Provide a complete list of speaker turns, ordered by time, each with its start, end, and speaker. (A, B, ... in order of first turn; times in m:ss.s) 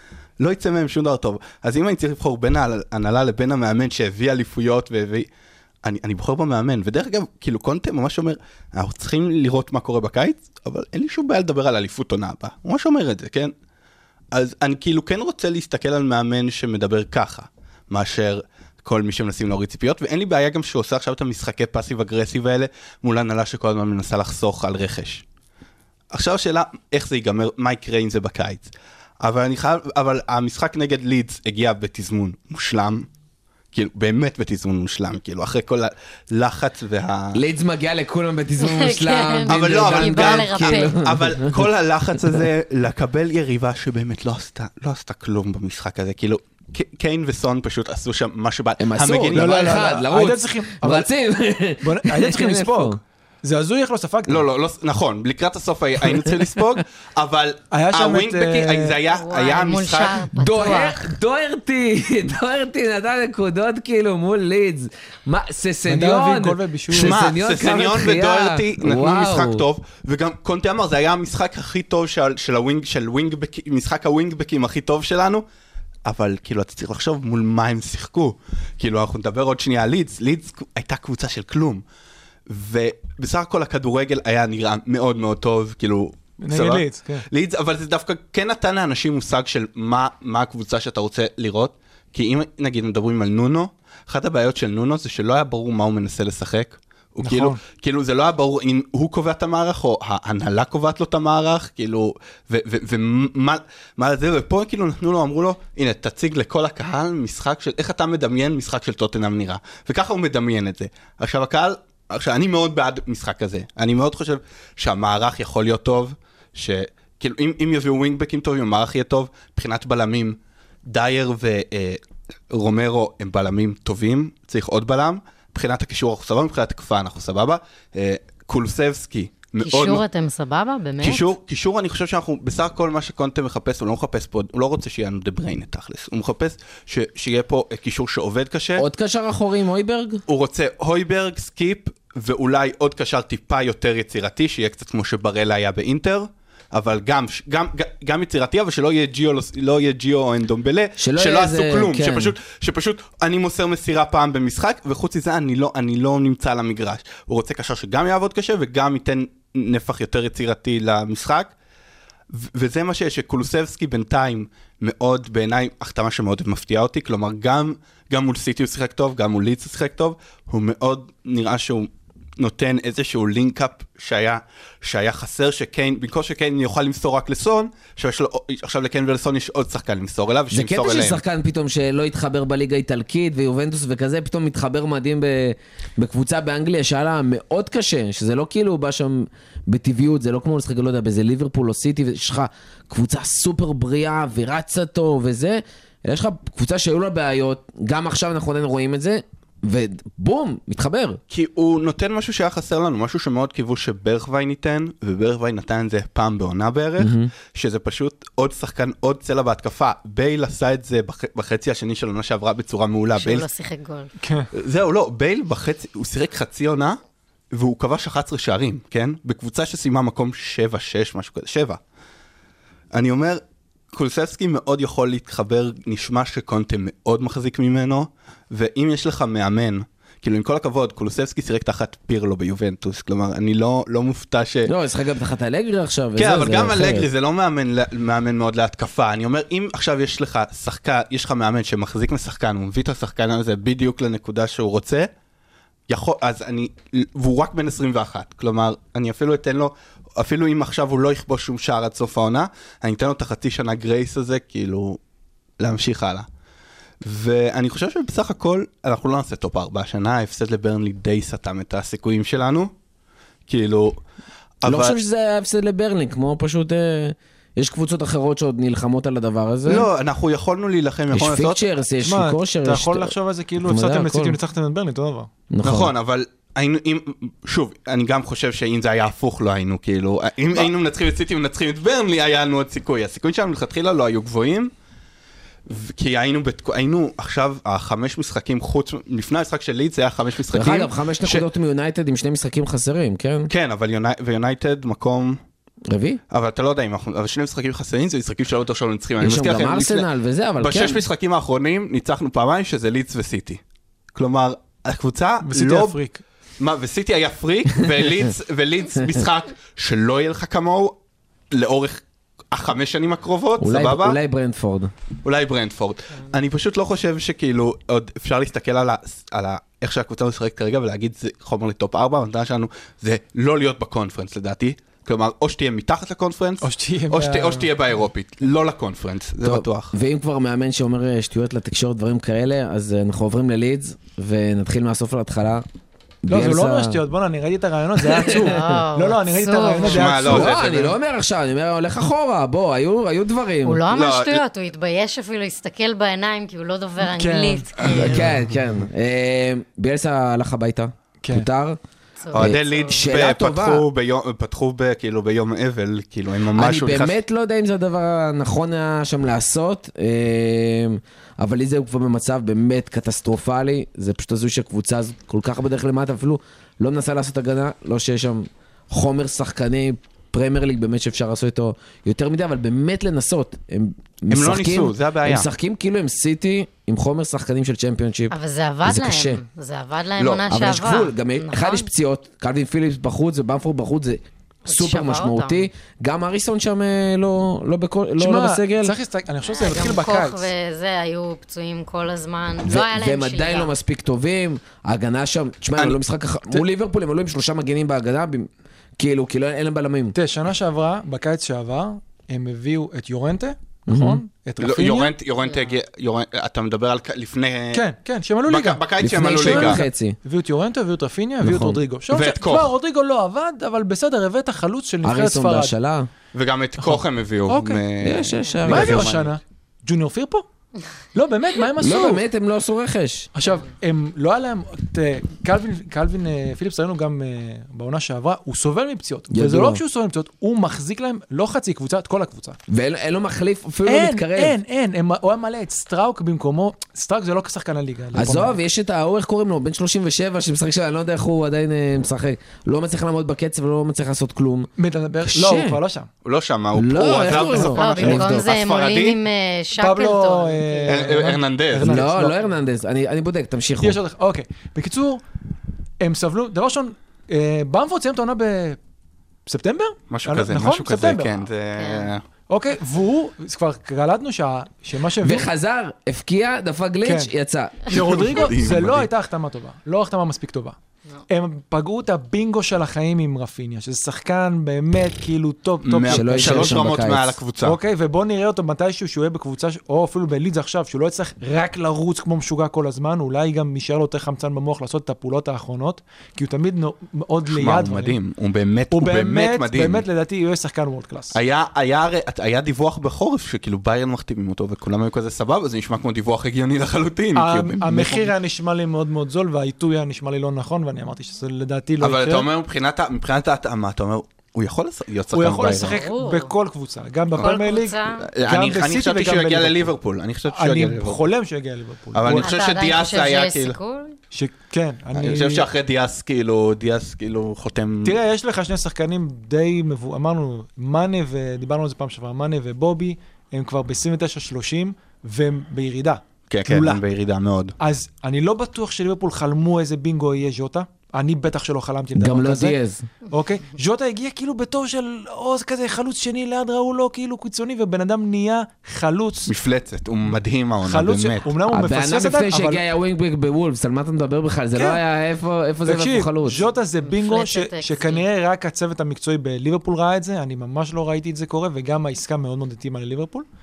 0:00.4-0:05.3 A
0:05.8-0:13.5 A
0:14.3-0:25.2 A
0:26.1-0:33.0 A
0:33.7-0:37.4 A
0:37.3-0:42.4 B
0:38.6-0:41.0 C
0:39.5-0:50.0 A
0:48.8-0:53.0 B
0:49.3-0:51.1 D
0:51.8-0:54.4 D
0:54.3-1:00.3 A
0:57.7-0:59.0 D
0:59.1-1:01.0 C
1:00.3-1:09.6 B
1:05.9-1:07.2 D
1:06.9-1:15.4 A
1:16.0-1:21.8 A
1:22.5-2:10.0 A
1:26.4-1:27.3 D
1:37.2-1:37.6 D
2:09.6-2:11.3 C
2:11.0-2:18.8 A
2:18.8-2:20.2 B
2:20.3-2:41.5 A
2:31.0-2:32.3 B
2:42.3-3:01.2 A
3:00.5-3:21.2 B
3:21.3-3:33.4 A
3:27.0-3:27.3 B
3:33.1-3:34.1 C
3:34.2-3:34.5 D
3:34.5-3:37.0 A
3:37.5-3:41.8 A
3:42.9-3:43.4 A
3:43.9-3:54.7 A
3:54.6-3:57.1 B
3:56.2-4:05.1 A
4:05.9-4:15.0 A
4:15.6-4:16.3 A
4:17.0-4:22.7 A
4:23.5-4:24.0 A
4:24.6-4:25.0 A
4:24.7-4:29.9 B
4:29.6-4:31.7 A
4:31.1-4:34.4 B
4:32.0-4:35.3 D
4:35.5-4:35.9 B
4:35.6-4:44.7 A
4:45.7-4:51.4 A
4:50.5-4:53.5 B
4:53.5-4:55.4 A
4:55.9-4:56.2 B
4:56.3-5:00.1 A
4:59.2-5:01.0 B
5:00.6-5:03.6 A
5:04.1-5:06.0 A
5:05.4-5:06.2 D
5:06.6-5:11.0 A
5:11.5-5:14.2 A
5:13.6-5:14.9 B
5:15.2-5:29.9 A
5:26.6-5:28.0 D
5:29.4-5:35.6 B
5:36.2-5:37.0 B
5:36.3-5:40.5 D
5:38.0-5:38.7 B
5:38.3-5:40.0 C
5:39.8-5:41.0 A
5:40.2-5:43.8 B
5:43.6-5:48.3 C
5:43.9-5:44.4 A
5:47.0-5:47.7 D
5:48.0-5:51.8 B
5:51.2-5:51.5 D
5:52.2-5:53.0 C
5:52.3-5:57.1 A
5:52.3-5:53.8 B
5:56.5-6:18.3 B
6:14.3-6:15.5 A
6:18.3-6:21.9 C
6:18.8-6:19.4 B
6:20.2-6:20.4 A
6:20.5-6:28.9 B
6:24.7-6:25.7 C
6:28.2-6:30.5 D
6:29.5-6:33.7 C
6:32.6-6:40.1 B
6:40.1-6:45.1 D
6:43.9-6:44.2 B
6:44.6-6:47.8 A
6:45.4-6:45.7 C
6:47.7-6:55.7 D
6:48.4-6:49.8 A
6:49.0-6:50.2 B
6:51.4-6:51.8 B
6:52.1-6:52.7 A
6:55.0-6:56.1 B
6:56.3-6:59.3 A
6:56.8-6:57.8 D
6:58.0-6:59.1 B
6:58.6-7:00.4 D
7:01.1-7:02.2 D
7:01.8-7:03.3 B
7:03.4-7:12.6 D
7:09.3-7:09.8 B
7:12.7-7:14.6 B
7:13.8-7:18.6 D
7:18.1-7:24.7 B
7:24.8-7:26.1 D
7:25.2-7:25.8 B
7:26.2-7:29.2 A
7:26.7-7:28.4 B
7:27.3-7:31.2 C
7:29.8-7:32.5 D
7:30.9-7:32.1 A
7:31.8-7:34.0 B
7:33.8-7:35.2 D
7:36.0-7:38.8 D
7:39.4-7:41.3 D
7:40.1-7:42.2 A
7:41.7-7:42.1 C
7:42.5-7:45.5 D
7:45.2-7:47.9 B
7:47.0-7:47.3 D
7:47.9-7:50.8 D
7:47.9-7:49.1 A
7:51.3-7:56.8 D
7:55.8-7:57.8 A
7:56.1-7:57.4 B
7:57.6-8:08.2 D
8:07.5-8:10.0 A
8:08.9-8:11.3 D
8:11.3-8:18.3 A
8:17.3-8:22.5 D
8:22.0-8:26.0 A
8:25.3-8:29.9 D
8:25.8-8:26.5 C
8:27.4-8:28.3 C
8:28.2-8:31.2 A
8:30.5-8:32.5 D
8:32.1-8:33.8 A
8:32.3-8:34.2 C
8:34.3-8:35.6 D
8:35.1-8:38.2 A
8:38.0-8:47.0 D
8:46.5-8:47.8 A
8:47.8-8:52.8 D
8:52.1-8:53.1 B
8:53.3-8:59.5 D
8:59.5-9:01.5 A
9:00.8-9:02.8 D
9:01.7-9:06.6 B
9:04.8-9:05.0 D
9:05.8-9:13.5 D
9:07.0-9:08.2 C